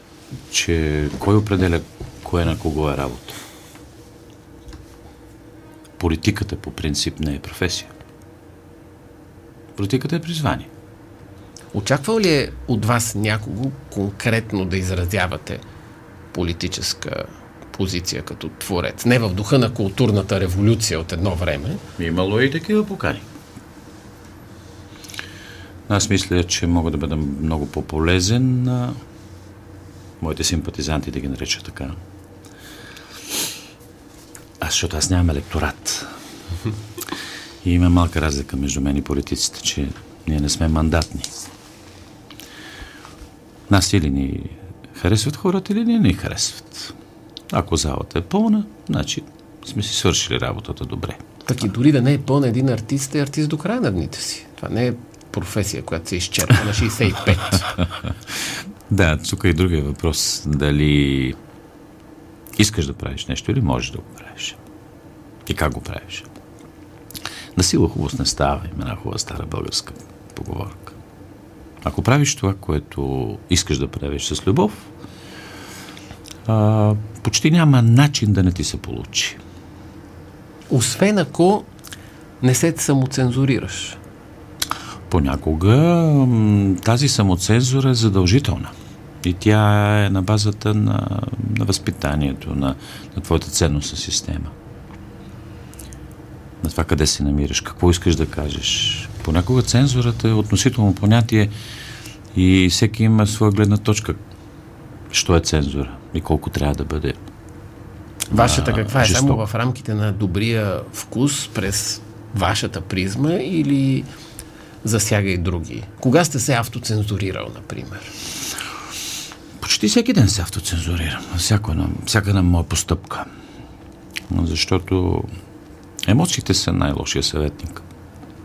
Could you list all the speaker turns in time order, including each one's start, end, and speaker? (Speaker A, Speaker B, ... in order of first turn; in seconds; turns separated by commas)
Speaker A: 0.5-3.4, Speaker A: 6.0-7.9, Speaker A: 9.8-10.7, Speaker B: 11.7-15.6, Speaker B: 16.3-21.8, Speaker A: 22.0-23.2, Speaker A: 25.9-29.0, Speaker A: 30.2-32.0, Speaker A: 34.6-36.1, Speaker A: 37.6-41.5, Speaker A: 43.7-46.9, Speaker A: 47.5-51.2, Speaker B: 51.5-57.7, Speaker A: 58.0-61.4, Speaker A: 62.6-64.6, Speaker A: 65.5-66.3, Speaker A: 67.5-71.0, Speaker A: 71.8-74.9, Speaker A: 76.5-79.4, Speaker B: 80.7-81.7, Speaker B: 82.4-84.0, Speaker A: 85.1-94.5, Speaker A: 96.6-101.5, Speaker A: 102.3-104.2, Speaker A: 105.1-107.2, Speaker B: 108.3-114.1, Speaker A: 108.3-109.4, Speaker B: 114.8-118.1, Speaker A: 119.6-123.3, Speaker A: 124.3-125.3, Speaker A: 126.0-127.8